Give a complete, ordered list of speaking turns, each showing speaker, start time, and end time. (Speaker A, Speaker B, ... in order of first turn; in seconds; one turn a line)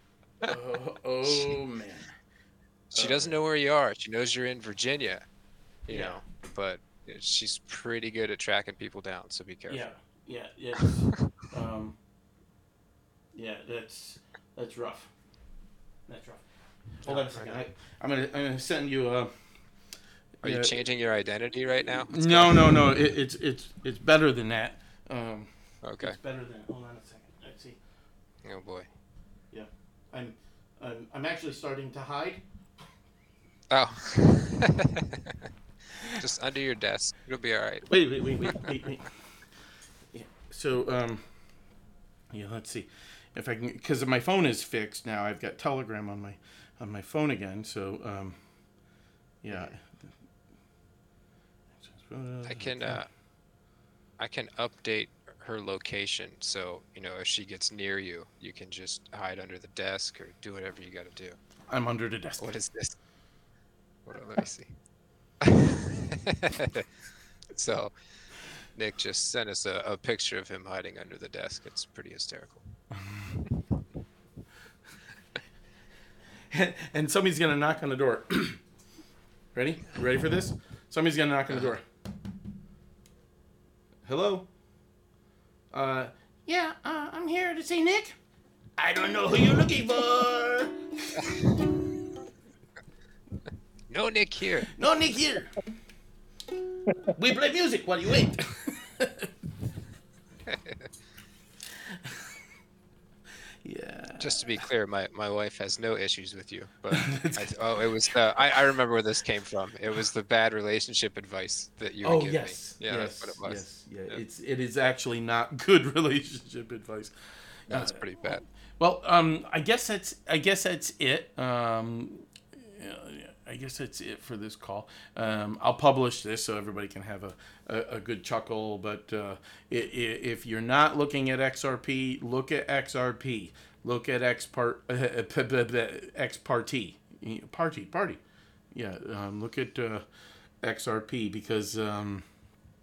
Speaker A: 0.4-2.1
Speaker B: 1.2-1.6
Speaker B: 2.9-5.2
Speaker A: 2.9-3.3
Speaker B: 5.9-9.8
Speaker A: 5.9-6.2
Speaker A: 9.7-12.0
Speaker A: 13.3-15.1
Speaker A: 16.1-16.4
Speaker A: 17.0-19.3
Speaker B: 17.0-17.6
Speaker A: 20.4-20.7
Speaker B: 20.4-22.9
Speaker A: 22.1-27.8
Speaker B: 25.8-26.2
Speaker B: 28.4-28.9
Speaker A: 29.5-32.4
Speaker B: 33.7-35.5
Speaker B: 36.0-37.9
Speaker A: 37.9-39.1
Speaker B: 38.5-38.7
Speaker A: 40.1-41.3
Speaker A: 42.3-48.4
Speaker A: 49.4-50.1
Speaker A: 51.8-53.0
Speaker B: 52.5-53.1
Speaker B: 54.2-61.4
Speaker A: 61.7-62.5
Speaker B: 62.4-63.0
Speaker B: 64.0-64.7
Speaker B: 65.4-66.9
Speaker B: 67.5-67.9
Speaker B: 68.7-73.8
Speaker A: 76.5-78.6
Speaker A: 79.5-81.8
Speaker A: 84.0-84.5
Speaker A: 85.7-88.2
Speaker A: 88.8-91.3
Speaker B: 93.9-94.8
Speaker A: 94.7-95.5
Speaker A: 97.1-99.3
Speaker B: 100.5-100.9
Speaker A: 101.9-102.2
Speaker A: 103.6-104.4
Speaker B: 104.2-114.2
Speaker A: 106.9-107.5
Speaker A: 112.0-117.1
Speaker B: 117.7-118.4
Speaker A: 117.7-138.2
Speaker A: 138.7-140.0
Speaker A: 140.6-142.2